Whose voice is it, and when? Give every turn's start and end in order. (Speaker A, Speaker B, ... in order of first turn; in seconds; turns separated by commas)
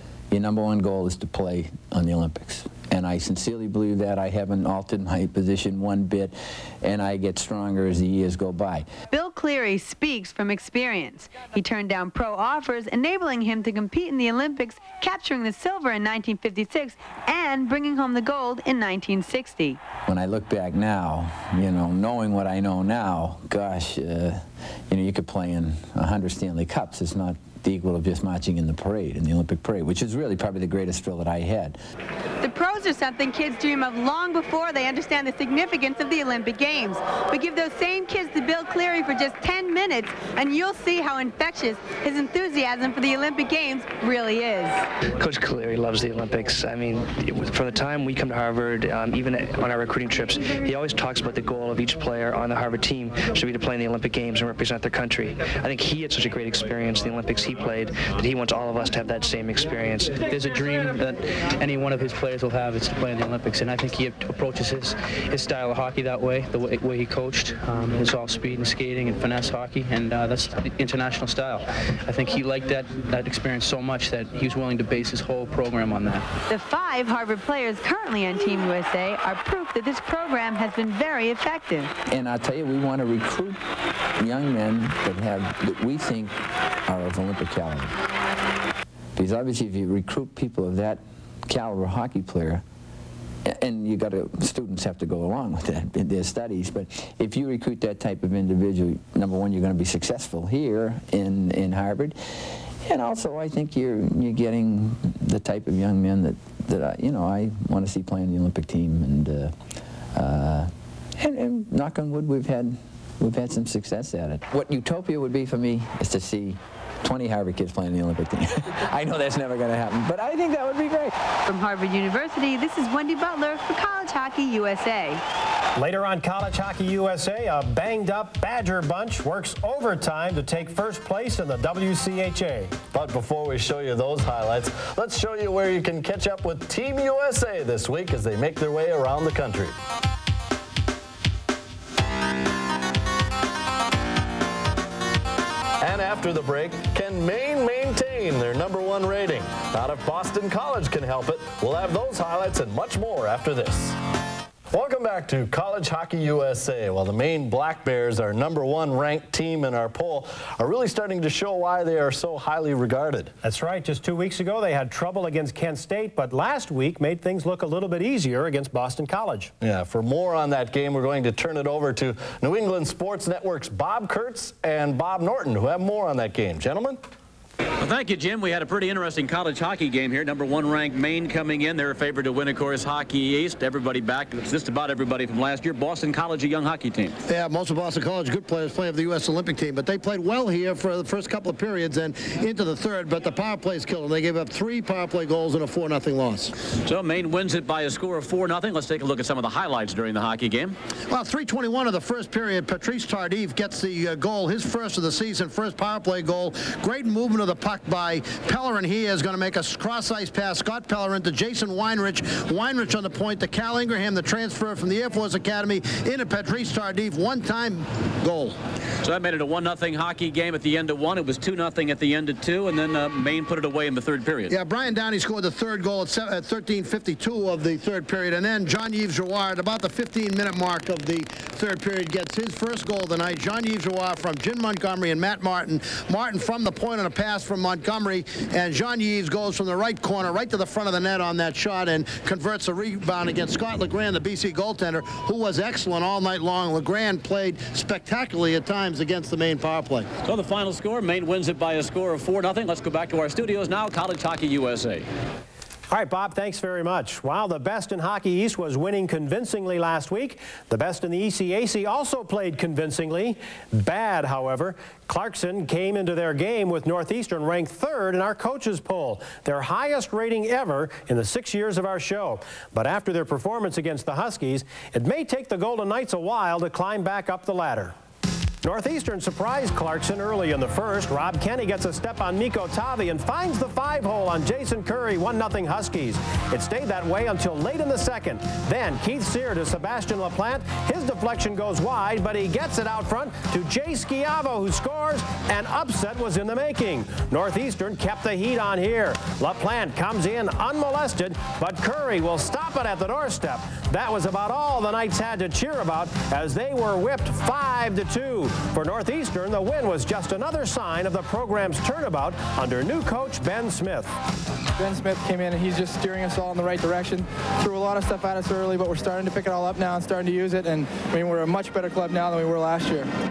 Speaker A: 0.3-8.9, Speaker B: 9.1-19.8, Speaker A: 20.1-31.8, Speaker B: 32.4-44.9, Speaker C: 45.2-60.3, Speaker D: 60.3-76.3, Speaker B: 76.5-81.9, Speaker A: 82.1-83.6, Speaker A: 84.2-88.0, Speaker A: 89.2-92.6, Speaker A: 93.5-109.5, Speaker A: 110.1-121.1, Speaker B: 121.5-125.2, Speaker E: 125.8-132.7, Speaker F: 132.9-139.7, Speaker F: 145.8-154.0, Speaker F: 154.7-163.3, Speaker E: 163.4-169.5, Speaker F: 169.6-177.0, Speaker G: 177.8-187.2, Speaker H: 187.3-196.5, Speaker G: 196.8-200.8, Speaker H: 201.1-218.6, Speaker G: 219.0-224.5, Speaker H: 224.5-250.1, Speaker G: 250.2-255.1, Speaker E: 255.9-277.9, Speaker E: 278.6-314.1, Speaker I: 314.8-323.1